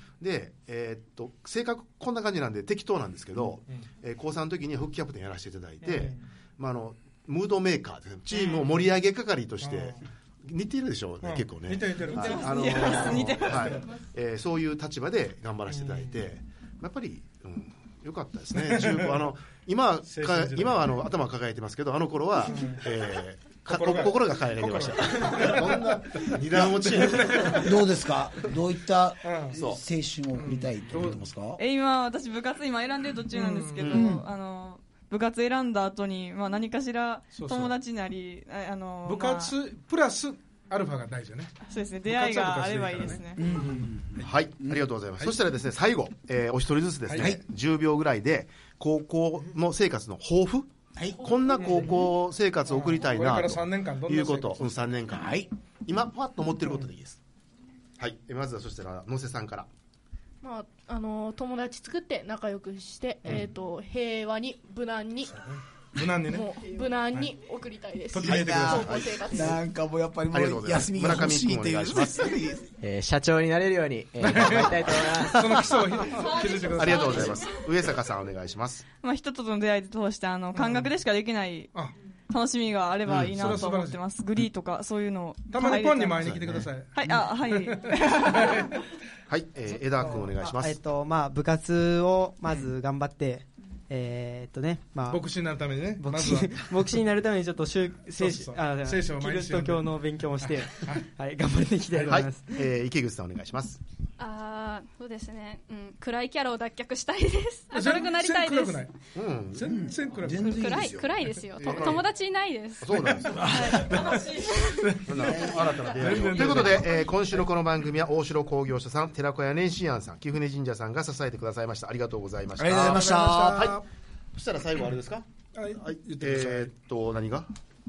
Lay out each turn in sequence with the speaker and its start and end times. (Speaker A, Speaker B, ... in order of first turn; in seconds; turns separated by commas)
Speaker A: 0.2-27.7, Speaker B: 5.8-6.2, Speaker B: 8.3-8.7, Speaker B: 9.6-10.0, Speaker B: 11.2-13.9, Speaker C: 12.1-13.8, Speaker B: 15.8-16.1, Speaker B: 18.6-19.2, Speaker B: 20.1-21.1, Speaker B: 22.4-22.9, Speaker B: 23.7-27.8, Speaker D: 27.4-31.6, Speaker B: 29.2-29.6, Speaker A: 29.5-29.8, Speaker B: 30.4-31.2, Speaker C: 31.6-39.5, Speaker B: 33.3-34.1, Speaker A: 33.8-34.1, Speaker D: 33.9-34.2, Speaker B: 37.3-37.8, Speaker B: 39.0-44.3, Speaker C: 41.7-43.6, Speaker D: 43.4-44.8, Speaker A: 44.2-55.4, Speaker B: 47.1-47.3, Speaker D: 51.0-51.3, Speaker B: 51.6-52.0, Speaker B: 52.7-54.7, Speaker D: 55.1-55.5, Speaker A: 55.9-57.2, Speaker A: 58.0-59.7, Speaker E: 60.4-65.4, Speaker B: 65.3-66.6, Speaker E: 66.2-69.5, Speaker B: 68.1-69.6, Speaker D: 68.2-72.7, Speaker A: 70.3-72.3, Speaker F: 72.8-76.0, Speaker B: 74.2-77.4, Speaker A: 76.7-78.8, Speaker C: 79.0-81.7, Speaker B: 80.5-80.9, Speaker C: 82.3-86.3, Speaker A: 83.1-83.6, Speaker B: 83.3-84.0, Speaker B: 85.5-88.7, Speaker A: 86.2-86.7, Speaker C: 87.0-88.8, Speaker A: 89.3-90.8, Speaker B: 90.0-90.3, Speaker G: 90.4-95.2, Speaker B: 95.1-96.8, Speaker G: 96.0-102.5, Speaker B: 98.2-101.0, Speaker A: 102.1-103.8, Speaker H: 104.2-108.9, Speaker B: 107.7-108.9, Speaker A: 109.1-109.7, Speaker B: 109.5-110.6, Speaker D: 109.6-111.4, Speaker H: 110.5-112.9, Speaker A: 111.6-112.0, Speaker A: 112.8-113.4, Speaker B: 113.0-117.0, Speaker D: 113.3-114.1, Speaker C: 113.6-114.5, Speaker A: 115.0-123.8, Speaker D: 115.2-115.7, Speaker D: 122.6-123.8, Speaker B: 122.7-123.8, Speaker A: 124.3-127.5, Speaker B: 125.5-126.7